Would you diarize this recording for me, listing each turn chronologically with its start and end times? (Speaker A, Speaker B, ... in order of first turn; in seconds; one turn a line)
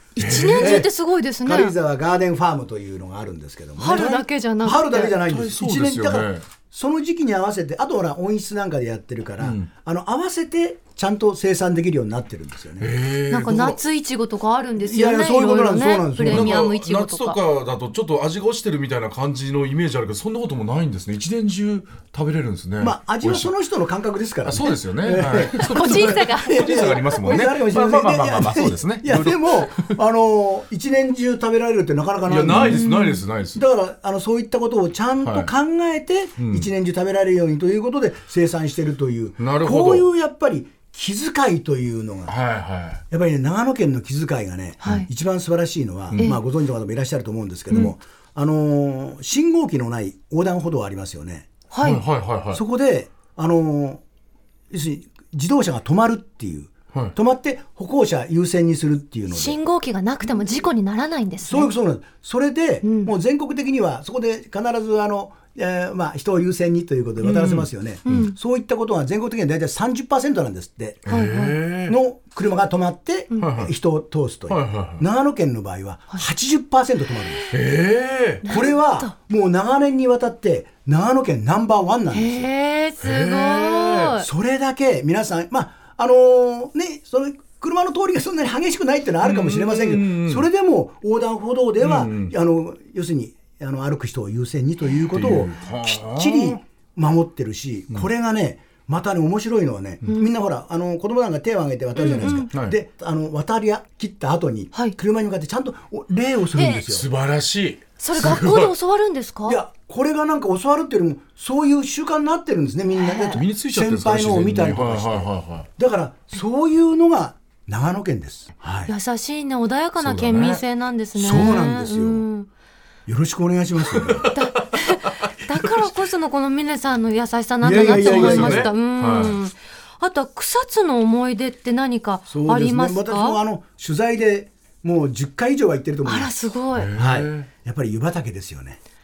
Speaker A: 0.2-1.8
Speaker B: 0.2-0.8
Speaker C: 0.6-0.9
Speaker C: 1.4-12.9
Speaker A: 3.8-5.2
Speaker B: 5.2-6.4
Speaker B: 9.4-9.7
Speaker B: 12.8-13.8
Speaker A: 13.3-17.4
Speaker C: 14.8-16.7
Speaker B: 16.2-23.5
Speaker C: 22.8-33.0
Speaker B: 24.4-30.0
Speaker A: 25.6-27.0
Speaker B: 32.3-33.6
Speaker A: 32.5-33.2
Speaker C: 33.5-42.3
Speaker B: 35.2-35.5
Speaker B: 36.4-36.7
Speaker B: 39.4-40.1
Speaker B: 42.3-43.0
Speaker C: 43.1-51.5
Speaker A: 44.8-45.1
Speaker A: 51.7-52.0
Speaker B: 51.8-52.6
Speaker C: 52.5-54.0
Speaker C: 54.7-59.6
Speaker A: 59.3-61.7
Speaker C: 61.5-71.1
Speaker A: 62.8-63.1
Speaker B: 67.2-68.3
Speaker A: 68.1-68.3
Speaker B: 71.1-72.0
Speaker A: 71.1-71.6
Speaker C: 71.9-77.5
Speaker B: 73.4-73.7
Speaker B: 74.5-75.0
Speaker B: 77.5-78.4
Speaker A: 78.4-79.1
Speaker C: 78.4-82.5
Speaker A: 82.1-84.3
Speaker B: 83.0-84.1
Speaker C: 84.2-107.1
Speaker B: 89.2-90.5
Speaker B: 91.8-92.3
Speaker B: 95.1-96.6
Speaker A: 102.0-102.5
Speaker B: 102.1-102.8
Speaker A: 106.5-106.8
Speaker B: 106.8-108.8
Speaker A: 108.0-109.6
Speaker C: 109.5-118.9
Speaker A: 113.0-113.4
Speaker B: 113.2-115.7
Speaker A: 118.9-122.5
Speaker B: 120.0-120.6
Speaker C: 121.2-122.2
Speaker C: 123.1-124.3
Speaker B: 123.9-124.8
Speaker A: 124.3-133.4
Speaker B: 125.6-125.9
Speaker C: 127.6-128.7
Speaker B: 127.8-129.4
Speaker C: 132.3-136.3
Speaker A: 136.1-136.9
Speaker B: 136.7-137.5
Speaker C: 136.9-138.8